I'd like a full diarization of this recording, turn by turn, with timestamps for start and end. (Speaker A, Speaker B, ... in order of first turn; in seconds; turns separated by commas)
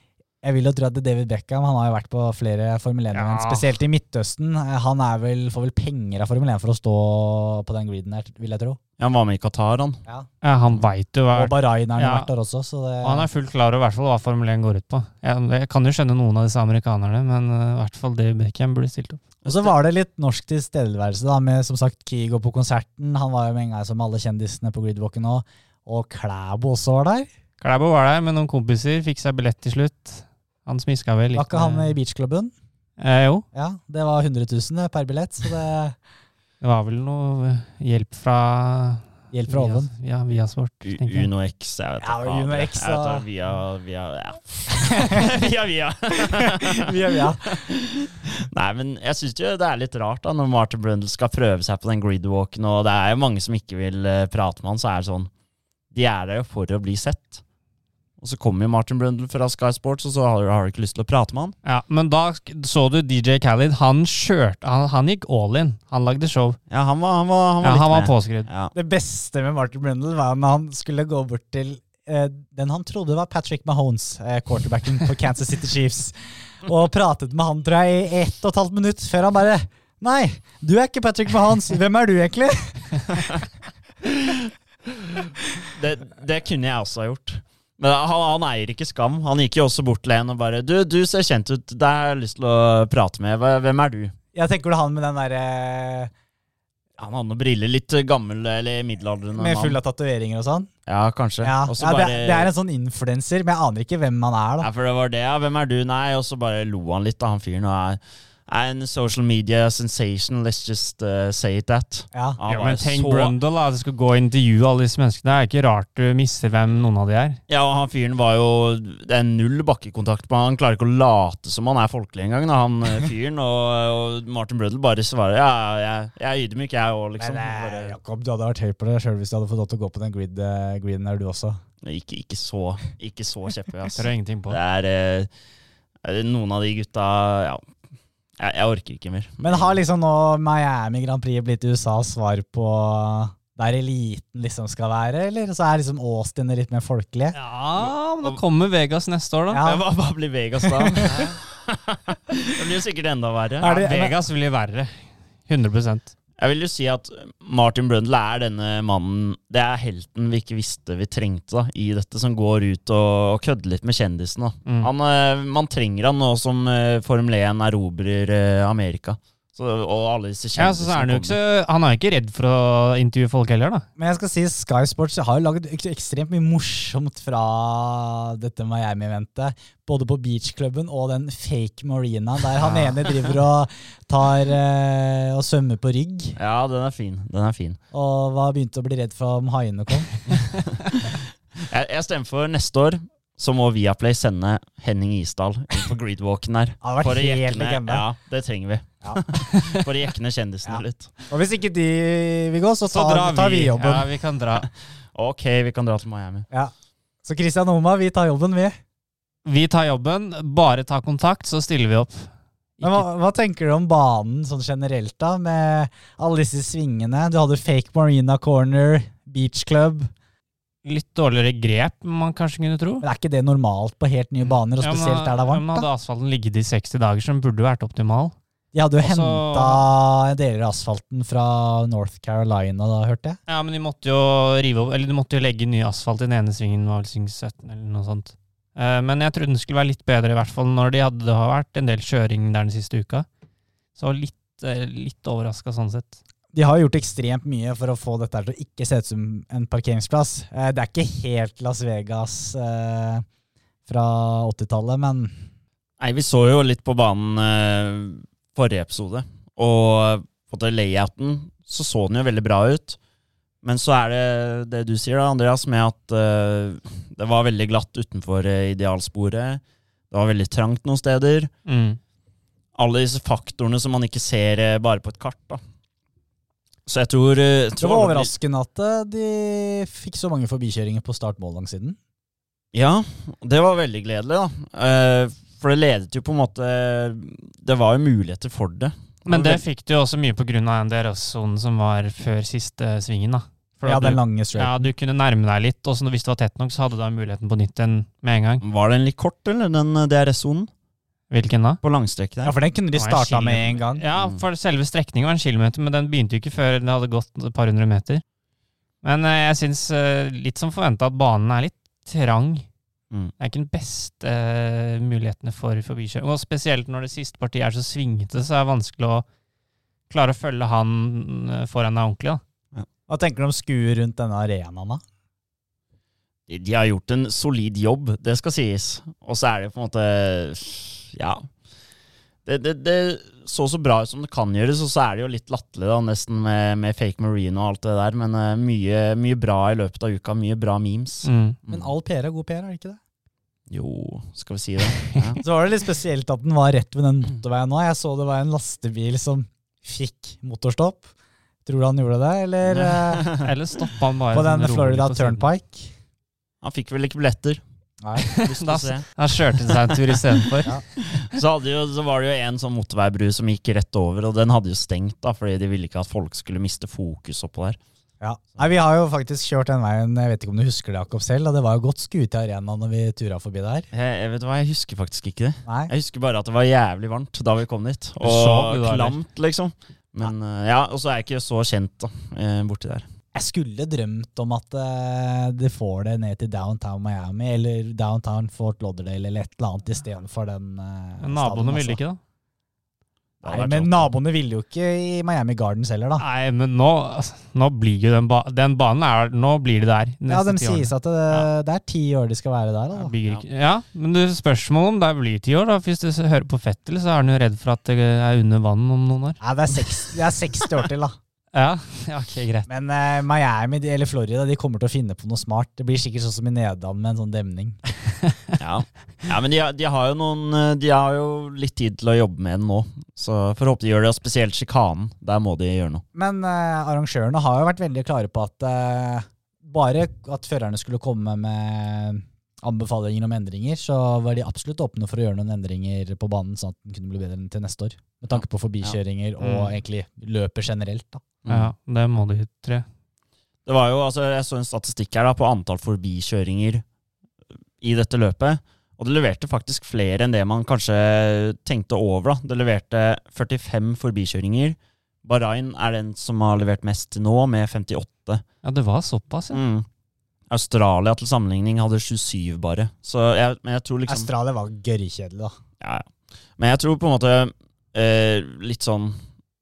Speaker A: 0.4-8.8, Speaker B: 3.1-3.8, Speaker C: 9.0-10.0, Speaker B: 10.4-12.3, Speaker A: 11.3-13.3, Speaker B: 13.0-19.3, Speaker C: 19.4-19.7, Speaker A: 19.4-27.3, Speaker B: 27.6-32.0, Speaker A: 31.3-32.5, Speaker B: 33.0-33.4, Speaker A: 33.5-35.9, Speaker B: 36.6-41.3, Speaker A: 39.3-39.9, Speaker C: 40.8-55.3, Speaker A: 42.0-43.2, Speaker A: 44.9-45.2, Speaker A: 46.4-47.6, Speaker C: 55.9-57.4, Speaker C: 58.2-61.5, Speaker B: 61.6-66.6, Speaker C: 66.7-68.7, Speaker B: 67.6-68.5, Speaker A: 68.7-83.0, Speaker C: 85.2-94.1, Speaker A: 94.3-96.1, Speaker C: 97.0-99.8, Speaker A: 99.3-100.7, Speaker C: 100.9-102.5, Speaker A: 101.4-104.7, Speaker C: 104.6-113.3, Speaker A: 112.1-112.4, Speaker B: 112.5-117.4, Speaker C: 117.5-128.0, Speaker A: 127.2-131.6, Speaker C: 131.8-135.3, Speaker B: 133.9-134.6, Speaker C: 136.0-137.6, Speaker C: 138.4-139.8, Speaker A: 139.4-147.3, Speaker B: 147.3-149.6, Speaker C: 147.8-148.4, Speaker A: 149.5-149.8, Speaker C: 149.6-153.8, Speaker A: 150.8-151.2, Speaker B: 151.1-151.3, Speaker A: 153.6-154.1, Speaker B: 153.7-156.1, Speaker C: 156.4-171.4, Speaker B: 170.6-173.8, Speaker A: 174.0-186.3, Speaker B: 182.6-182.9, Speaker C: 186.3-187.8, Speaker A: 187.9-190.1, Speaker C: 190.3-201.1, Speaker A: 196.8-198.0, Speaker A: 200.6-204.1, Speaker B: 202.9-204.7, Speaker C: 205.1-206.4, Speaker A: 207.2-208.7, Speaker B: 209.4-213.1, Speaker A: 212.8-220.1, Speaker B: 220.8-223.0, Speaker A: 223.0-225.9, Speaker B: 224.8-228.3, Speaker A: 228.7-233.4, Speaker B: 229.0-229.8, Speaker B: 233.5-243.2, Speaker B: 243.9-246.2, Speaker A: 246.5-253.2, Speaker A: 253.9-255.3, Speaker C: 256.0-263.0, Speaker C: 263.6-271.5, Speaker B: 271.6-272.0, Speaker C: 272.8-275.6, Speaker C: 276.9-278.3, Speaker A: 277.8-282.0, Speaker C: 282.7-289.6, Speaker B: 289.2-298.6, Speaker A: 293.8-294.9, Speaker C: 298.6-300.7, Speaker B: 301.3-301.8, Speaker C: 301.8-302.6, Speaker A: 302.4-304.0, Speaker B: 302.9-308.2, Speaker B: 309.0-312.6, Speaker B: 313.4-319.2, Speaker B: 320.1-322.4, Speaker A: 323.1-325.0, Speaker C: 326.5-331.5, Speaker C: 332.4-341.9, Speaker B: 341.2-341.6, Speaker A: 341.7-343.0, Speaker C: 343.7-345.4, Speaker A: 345.4-351.1, Speaker A: 351.6-353.2, Speaker C: 352.6-353.5, Speaker B: 353.4-355.4, Speaker A: 354.3-355.9, Speaker C: 356.6-357.6, Speaker A: 358.0-358.3, Speaker B: 358.2-360.8, Speaker C: 358.4-359.1, Speaker C: 359.6-360.4, Speaker C: 361.1-367.8, Speaker A: 368.2-373.9, Speaker C: 373.9-383.0, Speaker A: 375.6-375.9, Speaker B: 378.2-379.2, Speaker A: 383.3-392.0, Speaker B: 391.2-392.2, Speaker C: 393.4-394.1, Speaker A: 393.4-396.2, Speaker B: 396.2-401.4, Speaker A: 400.3-403.1, Speaker B: 402.9-409.4, Speaker A: 409.4-411.1, Speaker B: 411.5-412.7, Speaker A: 412.7-417.8, Speaker C: 418.6-426.0, Speaker A: 426.1-441.2, Speaker C: 438.3-439.0, Speaker B: 439.4-439.7, Speaker C: 441.4-441.7, Speaker B: 441.5-442.9, Speaker C: 443.6-446.8, Speaker C: 447.8-458.4, Speaker B: 458.6-459.6, Speaker C: 459.5-459.9, Speaker C: 460.5-464.3, Speaker A: 464.1-465.6, Speaker C: 465.8-466.1, Speaker C: 466.6-469.2